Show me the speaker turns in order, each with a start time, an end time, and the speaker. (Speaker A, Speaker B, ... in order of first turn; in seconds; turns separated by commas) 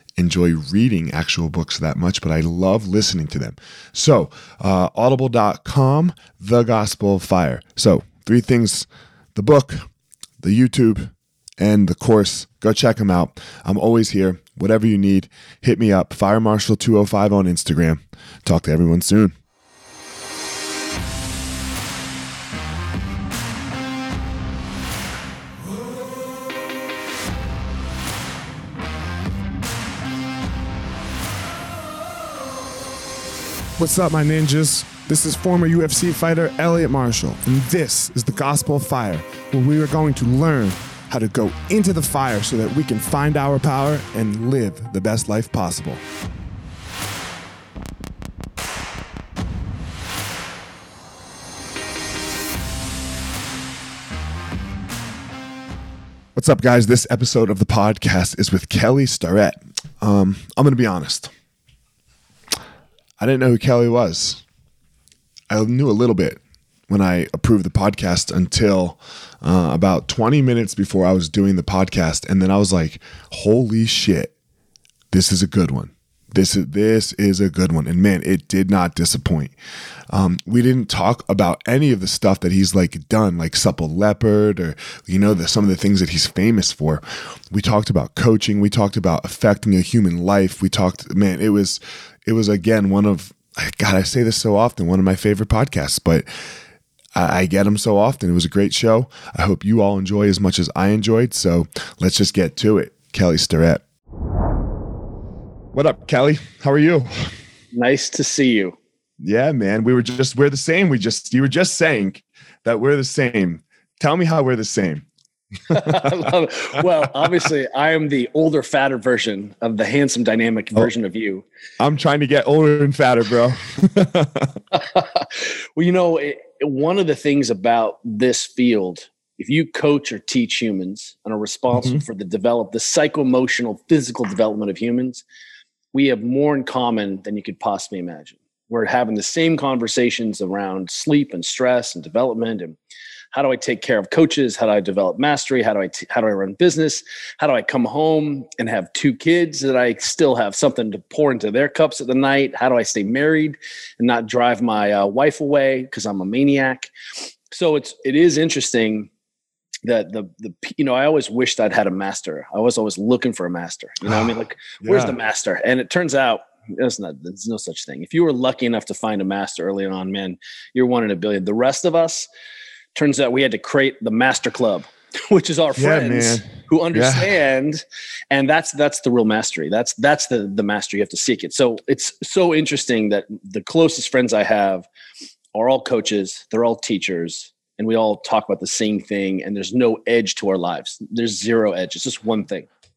Speaker A: 0.2-19.3, Speaker A: 33.8-46.0, Speaker A: 56.4-61.3, Speaker A: 63.2-64.4, Speaker A: 65.5-74.3, Speaker A: 75.1-79.5, Speaker A: 80.1-96.2, Speaker A: 97.1-103.8, Speaker A: 105.7-107.3, Speaker B: 107.7-108.8, Speaker A: 109.2-115.1, Speaker A: 115.7-116.2, Speaker B: 115.7-121.5, Speaker A: 121.8-124.6, Speaker B: 124.7-135.2, Speaker A: 131.7-132.0, Speaker B: 135.9-142.8, Speaker B: 143.3-156.9, Speaker B: 157.5-159.1, Speaker B: 159.8-172.3, Speaker A: 164.0-165.2, Speaker B: 172.9-184.9, Speaker A: 175.7-177.3, Speaker B: 185.5-192.7